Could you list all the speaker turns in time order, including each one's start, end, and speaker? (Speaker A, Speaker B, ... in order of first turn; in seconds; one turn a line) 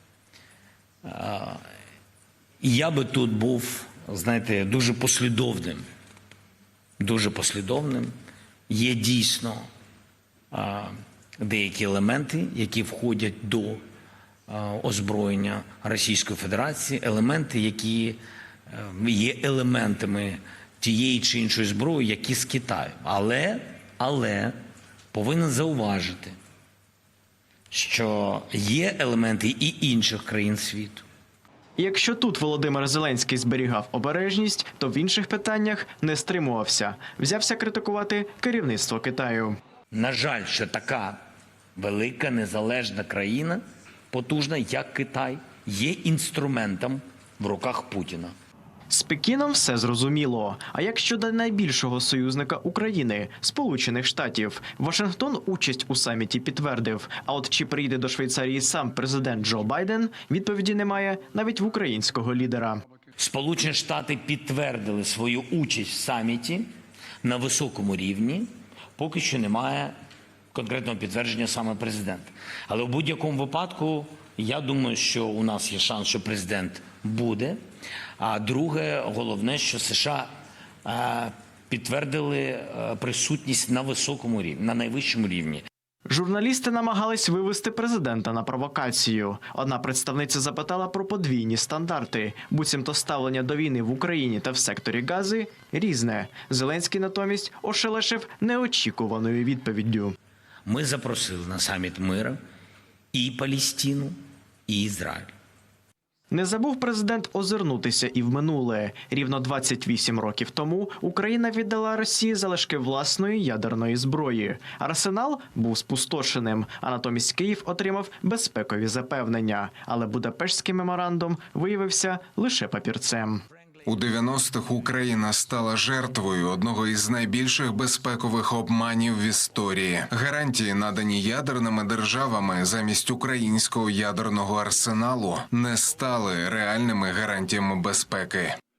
Speaker A: 1.0-1.6
Speaker A: 2.6-5.8
Speaker A: 7.0-8.1
Speaker A: 8.7-9.7
Speaker A: 10.5-13.8
Speaker A: 14.5-24.6
Speaker A: 25.1-26.3
Speaker A: 27.7-31.0
Speaker B: 31.8-39.6
Speaker A: 39.9-41.2
Speaker A: 41.8-48.3
Speaker B: 48.9-62.8
Speaker A: 63.2-66.7
Speaker A: 67.2-69.9
Speaker A: 70.5-77.6
Speaker A: 78.2-80.3
Speaker A: 80.8-85.6
Speaker B: 86.1-100.2
Speaker A: 100.7-102.4
Speaker A: 103.1-104.2
Speaker A: 104.7-105.3
Speaker B: 106.3-123.4
Speaker C: 123.8-138.6